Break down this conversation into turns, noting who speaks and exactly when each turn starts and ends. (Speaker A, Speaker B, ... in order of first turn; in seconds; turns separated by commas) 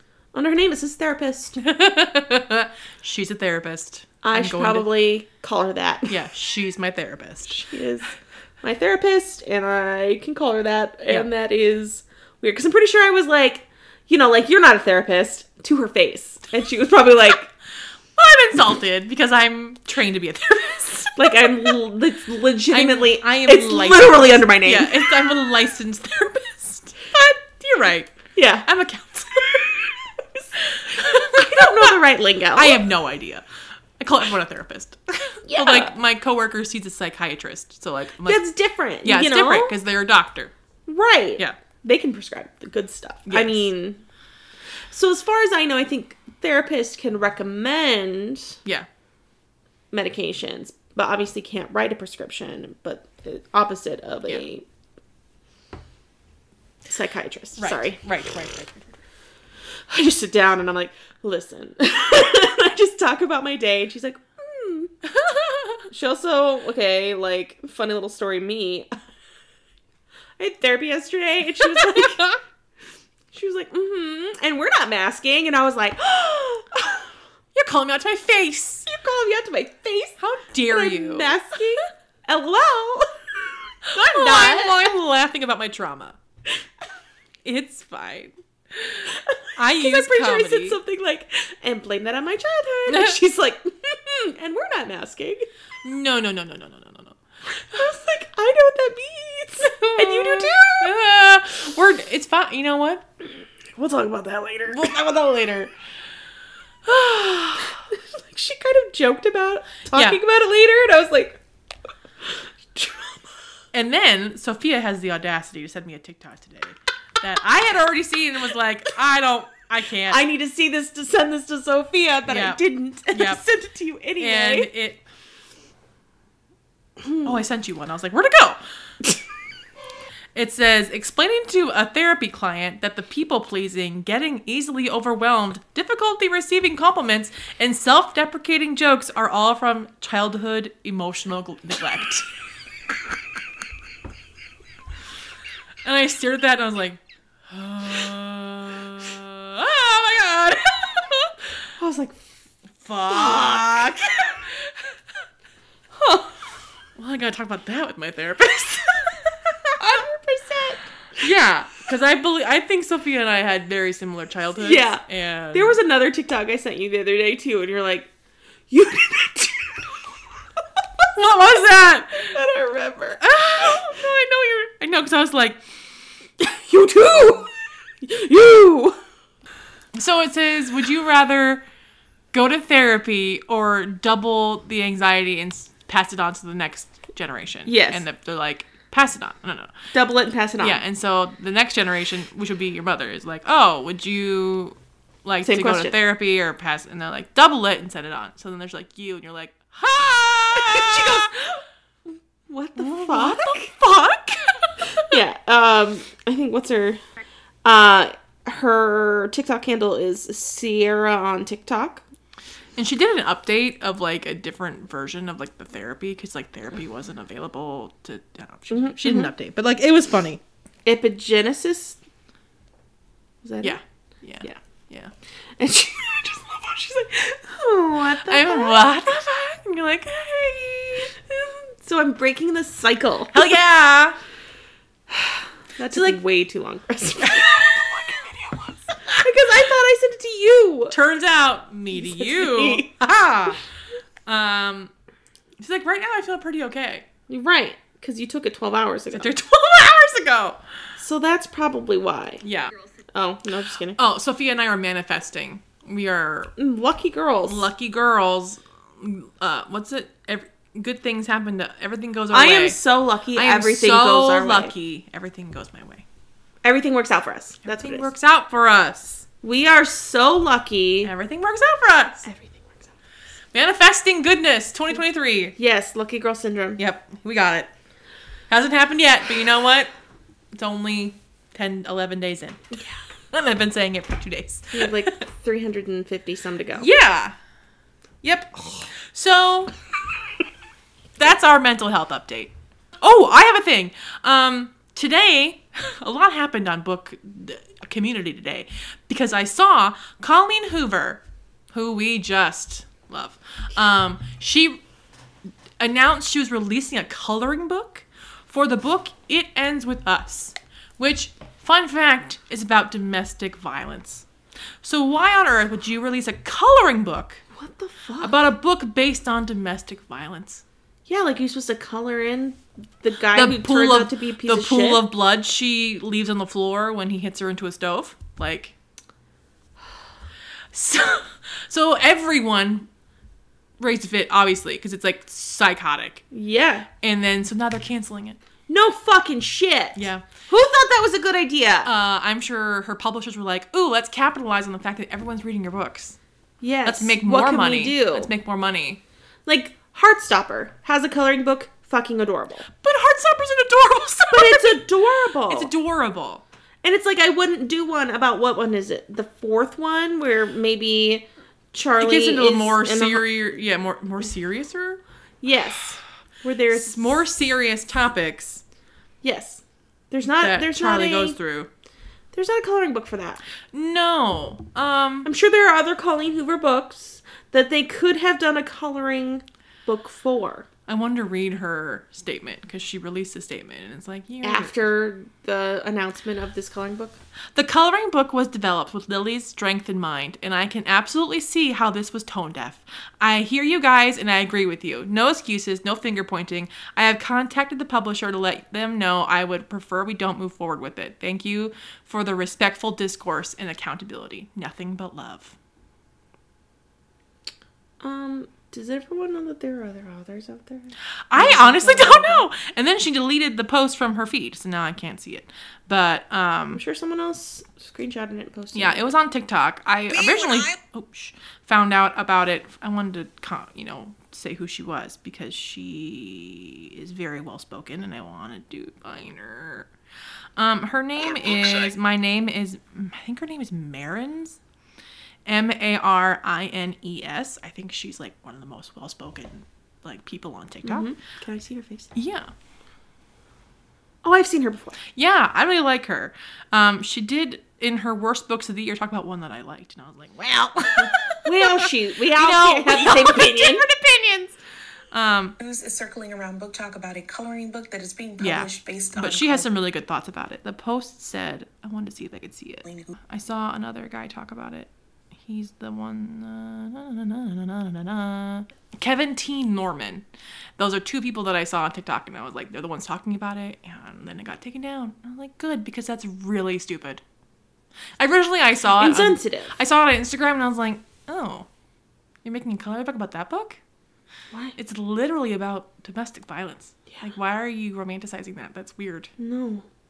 Speaker A: 0.3-1.6, Speaker B: 1.6-4.9, Speaker A: 4.2-6.2, Speaker B: 6.1-7.7, Speaker A: 7.5-17.5, Speaker B: 18.1-21.7, Speaker A: 21.1-25.1, Speaker B: 22.7-29.9, Speaker A: 28.3-28.6, Speaker A: 30.7-32.8, Speaker B: 30.8-31.9, Speaker B: 32.5-33.4, Speaker B: 34.0-38.5, Speaker A: 35.5-35.9, Speaker A: 38.2-39.7, Speaker B: 39.0-40.5, Speaker A: 40.9-44.0, Speaker B: 43.2-43.7, Speaker A: 44.9-48.6, Speaker A: 49.9-54.6, Speaker A: 56.9-58.0, Speaker B: 57.5-58.9, Speaker A: 59.9-64.9, Speaker B: 65.2-65.8, Speaker A: 65.9-68.9, Speaker A: 70.4-72.4, Speaker B: 71.6-72.3, Speaker A: 73.3-77.1, Speaker B: 77.5-78.8, Speaker A: 78.8-83.1, Speaker B: 80.2-81.3, Speaker A: 83.8-84.9, Speaker B: 83.9-86.2, Speaker B: 87.4-90.8, Speaker A: 89.0-95.5, Speaker B: 92.9-93.1, Speaker B: 95.8-97.2, Speaker A: 97.5-101.0, Speaker B: 99.6-103.0, Speaker A: 103.8-105.0, Speaker B: 104.7-105.7, Speaker B: 106.8-107.7, Speaker A: 107.9-111.4, Speaker B: 109.9-110.2, Speaker A: 112.2-113.3, Speaker B: 113.7-120.2, Speaker A: 120.1-124.7, Speaker B: 122.3-123.4, Speaker B: 124.2-125.0, Speaker B: 127.2-128.6, Speaker B: 130.3-142.3, Speaker B: 145.8-151.3, Speaker A: 151.8-152.2, Speaker B: 152.8-154.8, Speaker A: 153.1-153.9, Speaker A: 155.9-156.3, Speaker B: 156.9-160.0, Speaker A: 159.8-160.9, Speaker B: 161.2-165.8, Speaker A: 164.6-168.1, Speaker A: 168.7-170.0, Speaker B: 171.1-172.3, Speaker A: 172.1-173.8, Speaker B: 173.2-175.6, Speaker A: 176.4-177.5, Speaker A: 178.0-179.0, Speaker B: 179.9-181.6, Speaker B: 182.3-189.7, Speaker A: 187.7-188.0, Speaker A: 189.9-190.8, Speaker B: 190.6-201.3, Speaker A: 195.4-195.9, Speaker A: 200.5-201.6, Speaker A: 202.5-203.7, Speaker B: 202.8-205.2, Speaker A: 204.9-207.0, Speaker A: 207.6-212.0, Speaker B: 212.8-220.4, Speaker A: 218.7-219.3, Speaker A: 220.8-222.0, Speaker A: 223.4-223.8, Speaker B: 223.6-225.1, Speaker A: 225.6-228.8, Speaker B: 228.2-231.1, Speaker A: 231.3-233.6, Speaker B: 233.3-234.2, Speaker A: 235.1-238.2, Speaker B: 235.9-236.2, Speaker B: 237.2-239.2, Speaker A: 239.1-240.9, Speaker B: 240.9-243.6, Speaker A: 241.9-242.9, Speaker B: 244.2-244.9, Speaker B: 245.6-247.1, Speaker A: 247.3-249.3, Speaker B: 249.1-250.6, Speaker A: 251.0-252.4, Speaker B: 252.4-252.7, Speaker A: 253.1-254.0, Speaker B: 253.9-256.5, Speaker A: 256.6-257.7, Speaker B: 257.4-262.8, Speaker A: 262.3-264.7, Speaker B: 263.3-266.0, Speaker A: 266.6-268.1, Speaker B: 267.6-269.2, Speaker A: 269.4-271.1, Speaker B: 271.0-272.2, Speaker A: 272.2-272.9, Speaker B: 273.5-275.5, Speaker A: 275.6-276.8, Speaker B: 276.8-277.7, Speaker B: 278.5-279.9, Speaker B: 280.5-282.6, Speaker B: 283.3-285.1, Speaker A: 284.7-286.9, Speaker B: 286.8-287.3, Speaker B: 288.2-289.7, Speaker B: 291.2-304.8, Speaker B: 305.8-314.2, Speaker B: 314.8-317.4, Speaker A: 317.5-318.4, Speaker B: 318.2-320.6, Speaker A: 321.1-325.1, Speaker B: 323.3-328.7, Speaker B: 330.7-332.9, Speaker B: 333.8-336.2, Speaker A: 336.3-336.9, Speaker B: 337.0-338.4, Speaker A: 338.7-341.9, Speaker B: 339.9-340.3, Speaker B: 341.8-346.2, Speaker A: 346.6-348.3, Speaker B: 346.8-349.0, Speaker A: 349.4-352.7, Speaker B: 352.7-354.8, Speaker A: 354.3-355.7, Speaker B: 355.5-356.4, Speaker A: 356.8-363.2, Speaker B: 362.0-365.0, Speaker A: 365.4-367.2, Speaker B: 366.7-368.6, Speaker A: 369.2-371.4, Speaker B: 370.4-371.7, Speaker A: 372.3-373.4, Speaker B: 373.7-375.3, Speaker A: 375.2-380.7, Speaker B: 380.9-384.7, Speaker A: 384.4-387.2, Speaker B: 387.5-405.6, Speaker A: 408.0-412.5, Speaker B: 411.3-416.8, Speaker A: 416.7-419.1, Speaker B: 418.7-429.9, Speaker C: 420.2-420.7, Speaker B: 430.6-434.6, Speaker B: 435.4-441.1, Speaker A: 440.8-442.1, Speaker B: 442.1-442.5, Speaker A: 444.2-445.0, Speaker B: 445.1-454.6, Speaker A: 451.0-453.8, Speaker B: 455.1-455.6, Speaker C: 455.6-459.7, Speaker B: 458.4-464.9, Speaker C: 462.9-463.1, Speaker B: 465.4-470.2, Speaker B: 470.8-477.2, Speaker B: 478.2-481.7, Speaker A: 479.0-479.7, Speaker B: 482.4-483.8, Speaker A: 484.5-484.8, Speaker B: 484.8-489.3, Speaker A: 489.4-489.8